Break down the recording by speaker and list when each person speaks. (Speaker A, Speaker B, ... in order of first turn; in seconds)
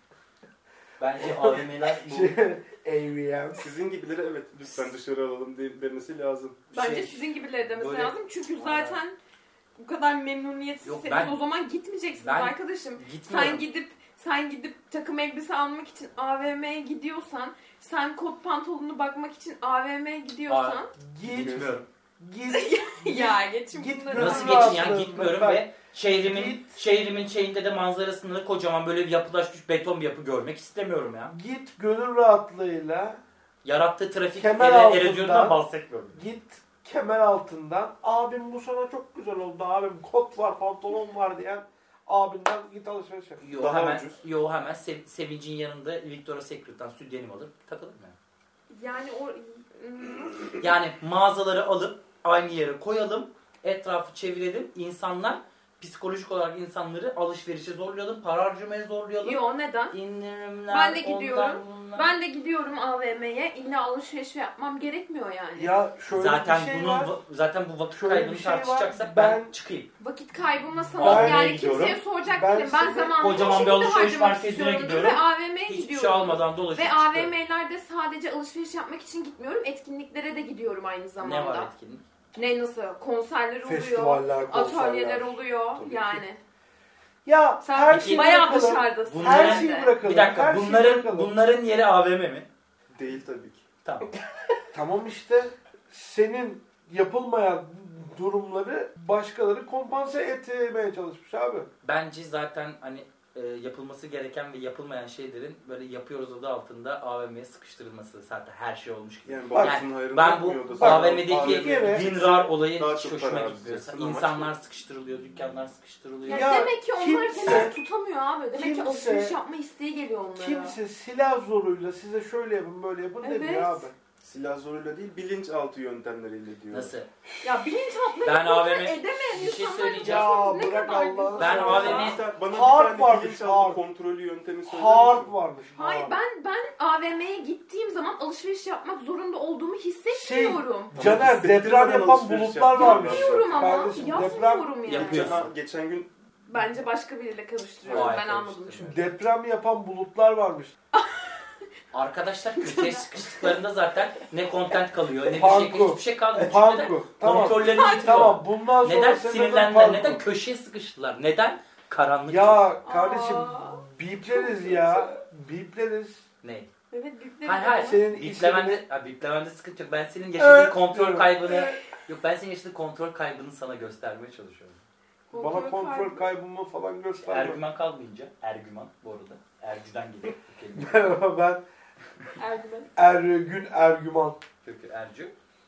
Speaker A: 1.0-2.4, 6.7-9.0, 10.8-11.4, 12.2-13.6, 20.5-21.9, 24.1-31.3, 33.6-36.2, 43.4-48.1, 50.6-62.1, 66.1-69.9, 71.0-72.0, 73.2-77.3, 81.2-82.0, 87.9-88.3, 89.0-92.5, 93.8-94.1, 101.8-116.6, 126.7-127.1, 128.2-130.3, 131.4-132.2, 144.8-145.5, 147.9-149.1, 151.9-162.8, 166.4-166.7, 167.4-174.8, 177.2-181.2, 184.6-185.3
Speaker B: 1.2-3.7, 21.0-25.7, 26.2-26.8, 31.2-33.2, 34.3-35.6, 36.1-43.4, 65.5-67.2, 67.9-69.5, 71.0-71.5, 72.2-73.7, 83.6-86.2, 87.2-91.3, 94.7-101.7, 109.5-109.8, 110.7-112.1, 116.3-117.8, 118.5-119.4, 120.4-124.0, 130.0-133.8, 134.6-136.2, 140.1-144.9, 148.8-150.7, 155.3-160.2, 162.3-166.3, 167.8-168.8, 170.4-171.8, 175.3-177.6, 180.7-181.6, 182.9-184.4
Speaker C: 3.6-6.6, 43.5-44.2, 92.9-93.6, 109.2-114.5, 124.2-126.9, 131.6-135.3, 140.9-144.2, 144.9-146.1, 147.8-148.2
Speaker D: 6.7-9.2, 9.8-20.9, 22.5-24.9, 48.7-50.7, 59.2-60.0, 60.7-65.8, 70.0-81.7, 82.3-86.4, 87.6-90.0, 116.2-120.8, 123.2-123.9, 127.4-132.2, 135.7-141.1, 142.7-145.4, 146.5-149.0, 150.9-151.4, 152.6-153.5, 157.7-158.1, 162.8-165.1, 166.9-168.0, 175.3-176.3, 182.4-182.9